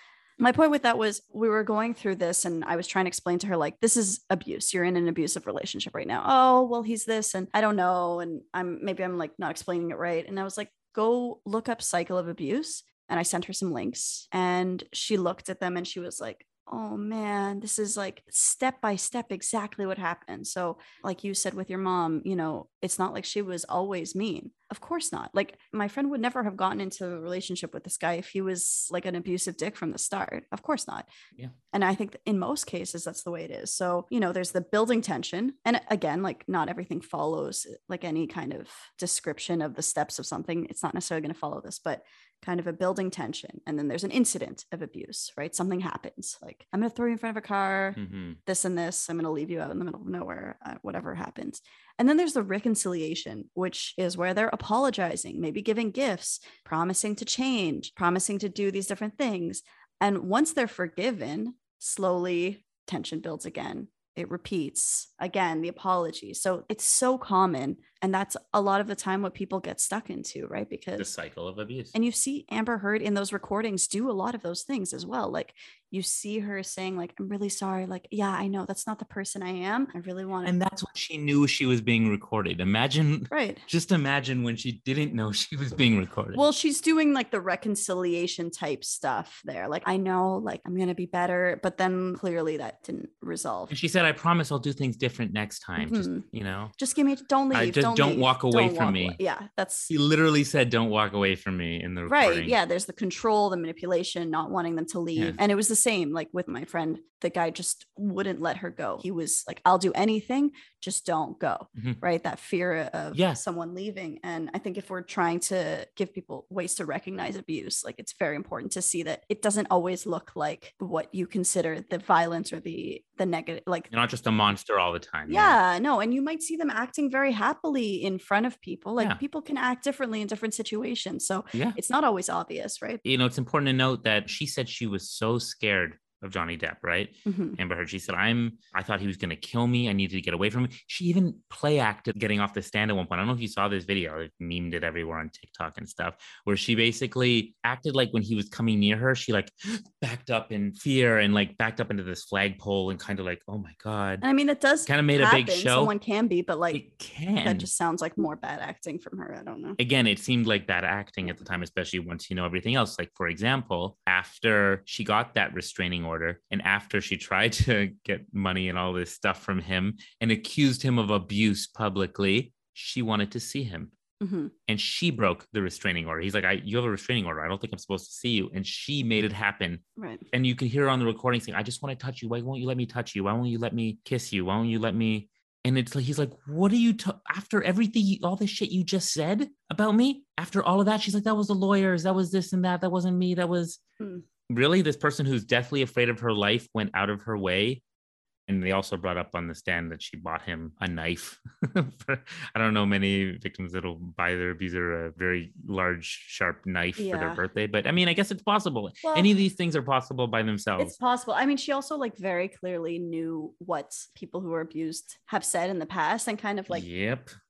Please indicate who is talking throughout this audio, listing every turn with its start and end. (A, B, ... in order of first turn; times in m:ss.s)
0:00.4-0:31.1 A
0:31.7-1:11.1 A
0:48.0-0:48.4 B
1:11.0-1:11.9 B
1:11.9-1:20.5 A
1:20.4-1:26.4 B
1:23.3-1:23.6 A
1:26.3-1:33.7 A
1:33.7-1:36.7 B
1:35.8-1:36.2 A
1:36.8-1:39.9 A
1:37.5-1:39.2 B
1:39.9-1:42.6 B
1:42.1-2:03.9 A
1:53.1-1:53.4 B
2:03.9-2:05.6 B
2:05.3-2:13.0 A
2:13.0-2:34.2 B
2:17.2-2:17.6 A
2:34.2-2:36.8 A
2:34.9-2:35.9 B
2:36.7-2:37.7 B
2:37.4-2:39.8 A
2:39.8-2:53.9 B
2:54.2-2:54.5 A
2:54.7-3:13.8 B
3:00.0-3:00.2 A
3:14.5-3:17.8 B
3:18.5-3:31.0 B
3:27.0-3:27.4 A
3:29.0-3:29.3 A
3:30.8-3:36.8 A
3:36.7-3:37.3 B